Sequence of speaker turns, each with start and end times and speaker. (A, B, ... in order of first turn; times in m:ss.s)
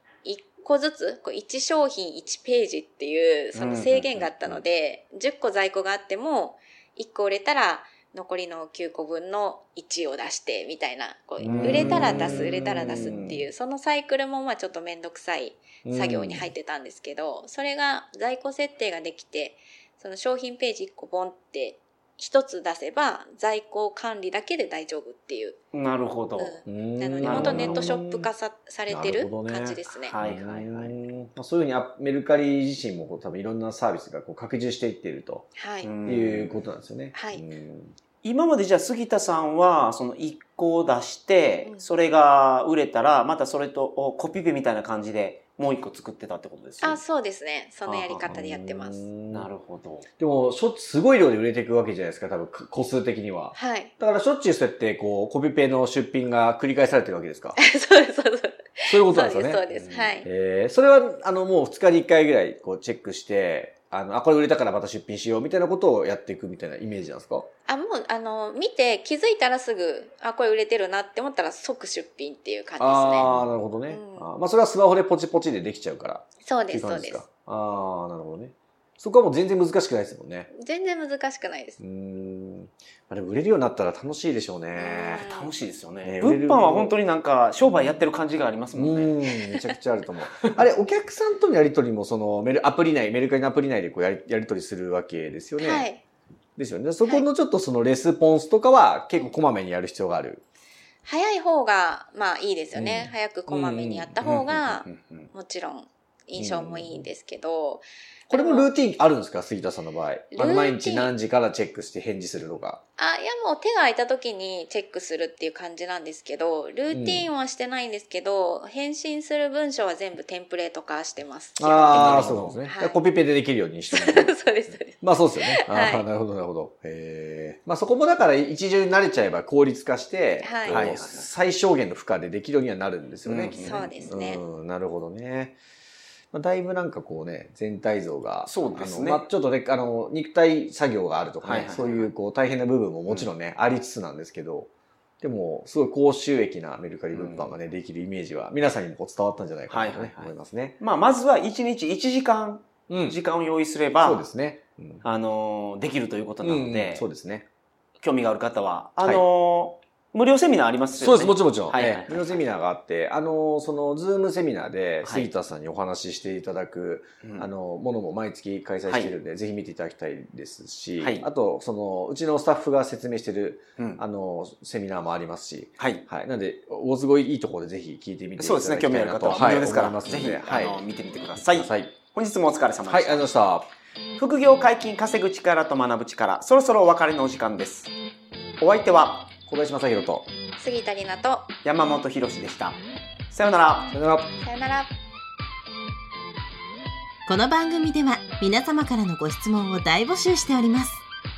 0:00.2-0:25.6 A
0:03.5-0:04.3 B
0:11.4-0:13.4 C
0:11.4-0:13.4 B
0:15.8-0:16.5 C
0:25.7-0:26.6 B
0:26.4-0:30.1 A
0:26.6-0:28.3 C
0:27.2-0:28.0 B
0:28.9-0:35.5 C
0:29.9-0:31.0 B
0:35.6-0:35.9 A
0:35.8-0:36.6 B
0:36.0-0:37.9 C
0:37.1-0:37.4 A
0:38.2-0:47.0 B
0:46.8-0:49.0 A
0:47.8-0:48.3 B
0:48.2-0:49.5 C
0:49.3-0:50.1 B
0:50.2-0:57.6 C
0:53.5-0:53.9 A
0:57.6-1:00.3 A
0:58.9-0:59.6 C
0:59.7-1:00.2 B
1:00.2-1:07.5 C
1:07.7-1:13.3 A
1:12.8-1:20.5 C
1:13.9-1:14.3 A
1:16.4-1:17.2 A
1:20.5-1:21.8 A
1:21.8-1:25.3 C
1:24.7-1:25.5 A
1:25.2-1:29.2 B
1:26.0-1:26.9 C
1:28.7-1:35.9 C
1:30.3-1:30.6 B
1:35.6-1:36.0 A
1:36.6-1:40.4 C
1:41.0-1:48.7 A
1:42.7-1:44.8 C
1:44.8-1:45.3 B
1:46.4-1:47.1 C
1:48.3-1:52.8 C
1:50.3-1:51.1 A
1:53.0-2:03.0 A
1:56.9-1:57.3 C
2:01.6-2:04.4 C
2:01.9-2:02.6 B
2:03.9-2:06.0 A
2:04.9-2:15.6 C
2:10.4-2:10.9 A
2:10.7-2:11.3 B
2:13.2-2:14.0 B
2:13.6-2:14.4 A
2:16.3-2:30.8 C
2:18.4-2:19.2 B
2:21.4-2:22.1 B
2:27.1-2:27.5 B
2:29.7-2:34.2 B
2:32.9-2:33.2 C
2:34.0-2:35.0 C
2:35.0-2:37.0 B
2:36.4-2:37.4 C
2:38.0-2:42.3 B
2:41.0-3:01.9 C
2:45.0-2:45.3 B
2:47.2-2:47.5 B
2:48.9-2:49.1 B
2:51.0-2:51.3 B
2:55.8-2:56.0 B
2:58.4-3:03.3 B
3:02.9-3:03.7 C
3:04.2-3:07.9 B
3:08.6-3:09.3 B
3:09.5-3:10.3 C
3:10.6-3:11.5 A
3:11.6-3:13.9 B
3:13.9-3:14.3 C
3:14.4-3:14.9 A
3:17.3-3:21.0 D